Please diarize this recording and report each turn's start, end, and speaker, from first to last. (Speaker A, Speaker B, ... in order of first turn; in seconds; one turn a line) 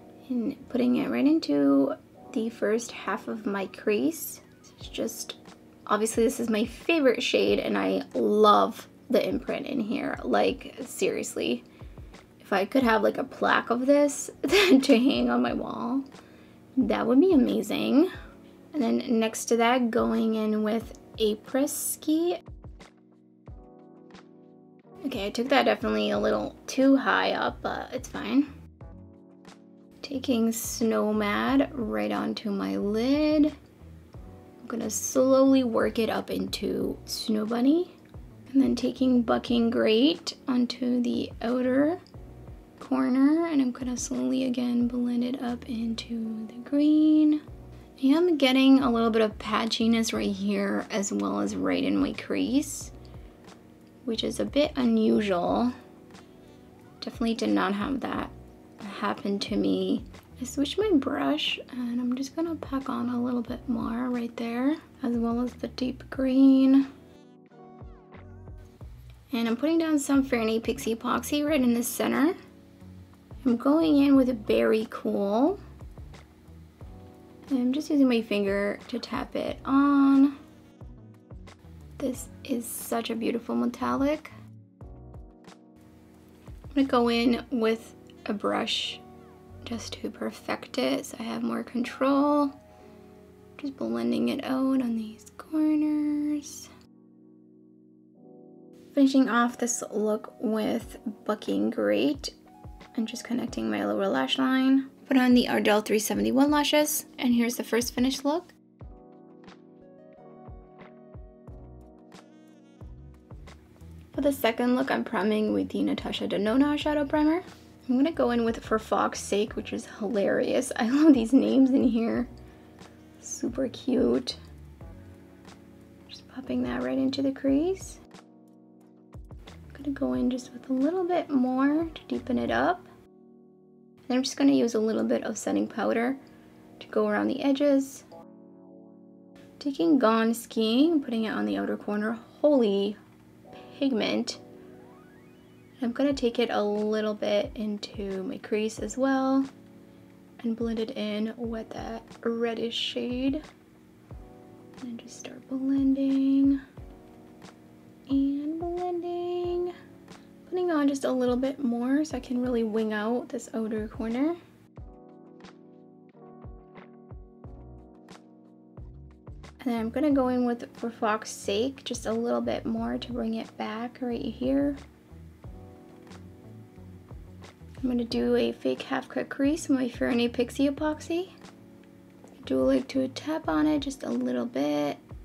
Speaker A: 0.2-11.6
Speaker A: 12.4-16.1
Speaker A: 16.8-18.1
Speaker A: 18.7-22.4
Speaker A: 25.0-28.5
Speaker A: 30.0-33.5
Speaker A: 34.6-37.9
Speaker A: 38.5-42.0
Speaker A: 42.8-47.4
Speaker A: 48.0-52.9
Speaker A: 54.0-55.7
Speaker A: 57.0-66.9
Speaker A: 69.3-72.3
Speaker A: 73.4-75.6
Speaker A: 77.5-80.4
Speaker A: 82.0-84.3
Speaker A: 86.7-89.0
Speaker A: 89.6-92.5
Speaker A: 93.6-96.7
Speaker A: 98.9-102.3
Speaker A: 102.9-108.5
Speaker A: 114.1-122.3
Speaker A: 123.2-124.4
Speaker A: 126.1-128.0
Speaker A: 129.7-132.9
Speaker A: 134.1-136.2
Speaker A: 136.8-138.1
Speaker A: 139.6-143.0
Speaker A: 143.5-144.4
Speaker A: 145.8-149.5
Speaker A: 150.4-153.4
Speaker A: 154.8-156.6
Speaker A: 158.1-159.7
Speaker A: 160.4-164.4
Speaker A: 169.6-174.8
Speaker A: 177.8-181.3
Speaker A: 182.4-185.0